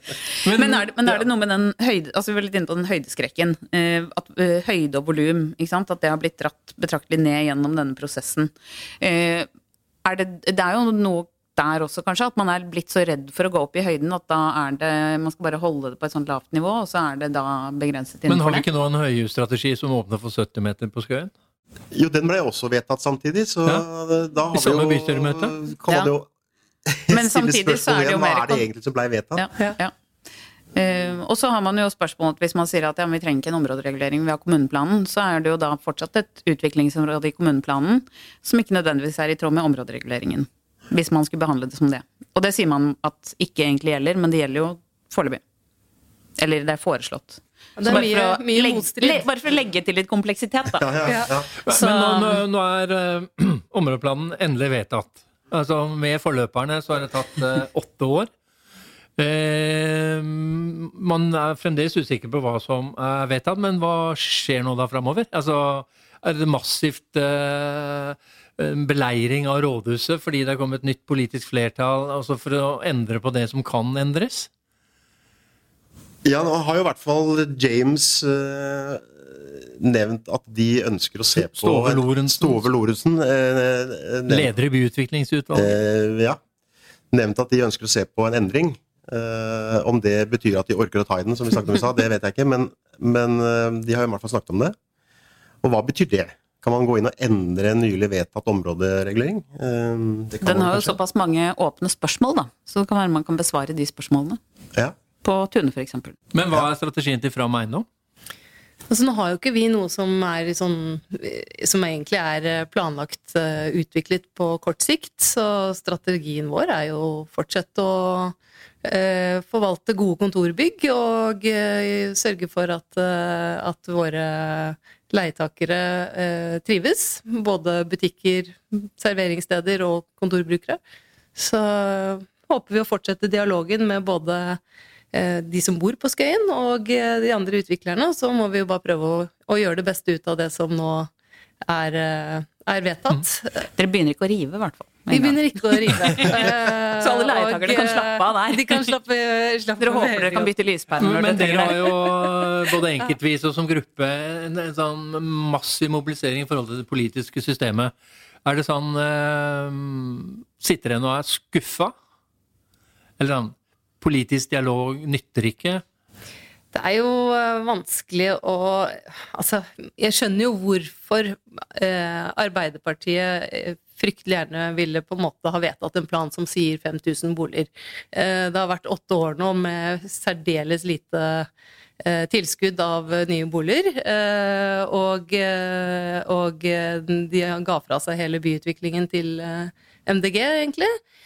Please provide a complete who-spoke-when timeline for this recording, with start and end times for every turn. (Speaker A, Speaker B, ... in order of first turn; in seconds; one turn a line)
Speaker A: 0.4-9.5
Speaker B: 0.4-1.2
Speaker A: 10.0-18.6
Speaker B: 18.3-21.3
Speaker C: 21.9-26.3
Speaker B: 24.5-25.6
Speaker A: 25.9-26.1
Speaker C: 26.9-29.5
Speaker A: 27.1-28.6
Speaker A: 29.4-29.9
Speaker A: 30.7-45.4
Speaker A: 46.4-52.4
Speaker D: 47.8-49.3
Speaker C: 50.8-51.5
Speaker B: 51.6-58.3
Speaker B: 59.2-74.5
Speaker C: 76.2-84.5
Speaker B: 81.4-82.7
Speaker B: 84.3-85.8
Speaker C: 85.5-86.4
Speaker C: 87.1-94.8
Speaker C: 95.6-101.0
Speaker A: 100.4-104.4
Speaker A: 105.2-106.2
Speaker B: 106.3-107.8
Speaker D: 108.9-130.8
Speaker D: 131.4-134.6
Speaker D: 135.1-141.1
Speaker D: 141.6-143.7
Speaker A: 143.8-148.9
Speaker D: 145.1-150.5
Speaker A: 149.8-152.0
Speaker B: 151.0-157.9
Speaker B: 158.4-161.9
Speaker B: 163.2-165.8
Speaker D: 166.7-181.5
Speaker D: 182.0-191.0